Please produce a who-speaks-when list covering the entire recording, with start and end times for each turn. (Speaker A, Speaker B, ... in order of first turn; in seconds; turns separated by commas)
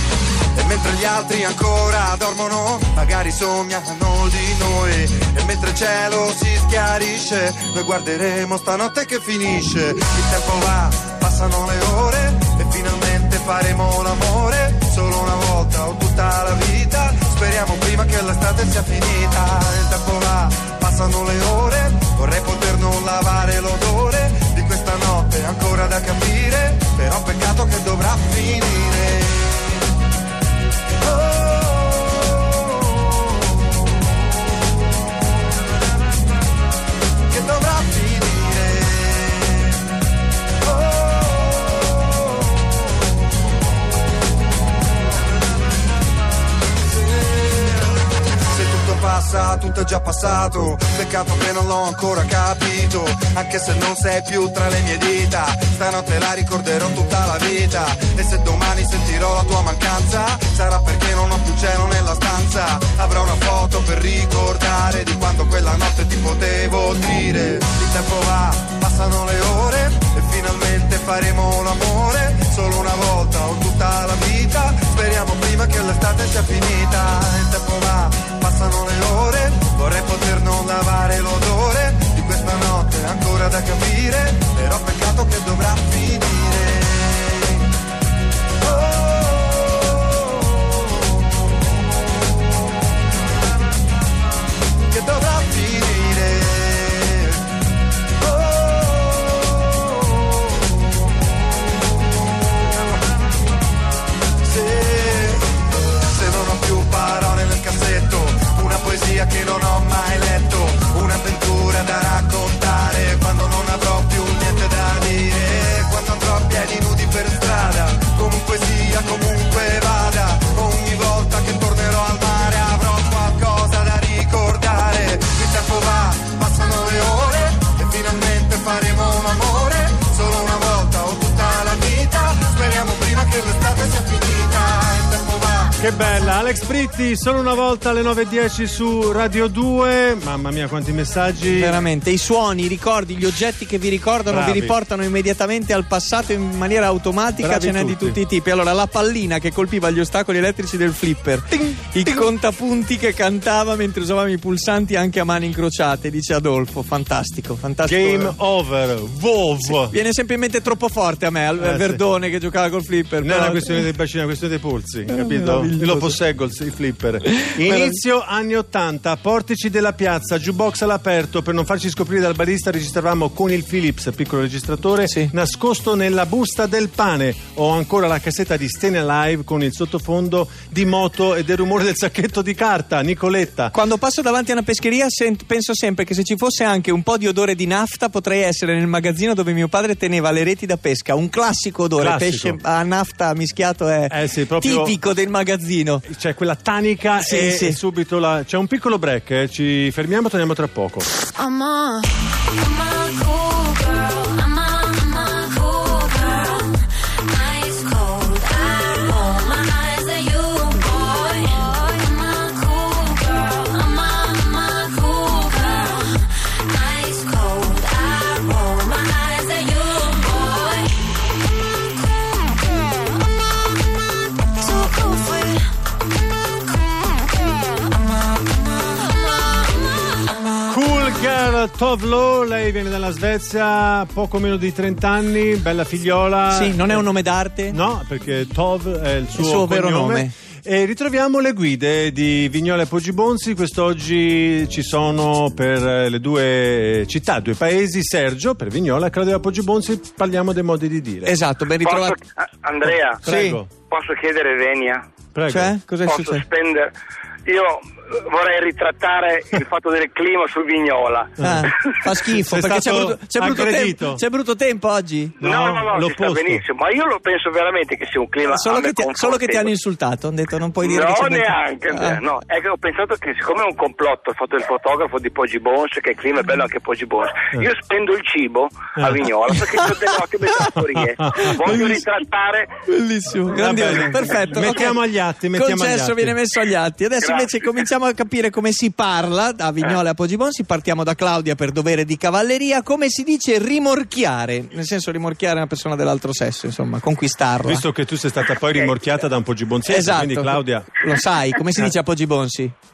Speaker A: 0.5-29.8, Speaker A: 31.1-32.7, Speaker A: 37.3-39.8, Speaker A: 40.7-41.5, Speaker A: 47.1-87.7, Speaker A: 88.6-90.2, Speaker A: 94.9-97.4, Speaker A: 98.2-99.9, Speaker A: 104.4-135.8, Speaker B: 135.8-141.8, Speaker C: 141.5-158.3, Speaker B: 144.3-144.8, Speaker B: 147.4-148.2, Speaker B: 151.5-152.3, Speaker B: 157.8-159.9, Speaker C: 159.6-163.8, Speaker B: 161.6-162.0, Speaker B: 163.2-183.7, Speaker C: 165.1-166.2, Speaker C: 167.4-168.0, Speaker C: 175.0-175.3, Speaker C: 183.7-196.0, Speaker B: 192.0-192.6, Speaker B: 194.1-195.0, Speaker B: 196.1-201.1, Speaker C: 197.2-197.8, Speaker D: 201.6-201.9, Speaker D: 202.6-206.7, Speaker D: 207.3-220.9, Speaker D: 224.6-225.6, Speaker B: 230.7-237.1, Speaker C: 236.5-237.8, Speaker B: 237.7-251.3, Speaker C: 239.3-240.3, Speaker C: 251.2-252.2, Speaker E: 251.8-253.2, Speaker B: 253.2-253.7, Speaker C: 253.2-253.6, Speaker E: 253.8-255.0, Speaker B: 255.3-255.7, Speaker C: 255.5-256.4, Speaker E: 256.0-256.9, Speaker E: 257.4-261.4, Speaker B: 261.4-261.7, Speaker C: 261.4-265.4, Speaker B: 262.2-264.2, Speaker B: 265.4-266.6, Speaker E: 265.4-269.7, Speaker C: 268.4-272.2, Speaker E: 270.8-282.7, Speaker B: 278.9-279.2, Speaker B: 280.7-282.0, Speaker C: 281.6-282.0, Speaker C: 282.9-285.0, Speaker B: 283.5-286.4, Speaker C: 285.5-297.8, Speaker E: 287.2-287.8, Speaker B: 297.6-300.9, Speaker C: 299.9-302.7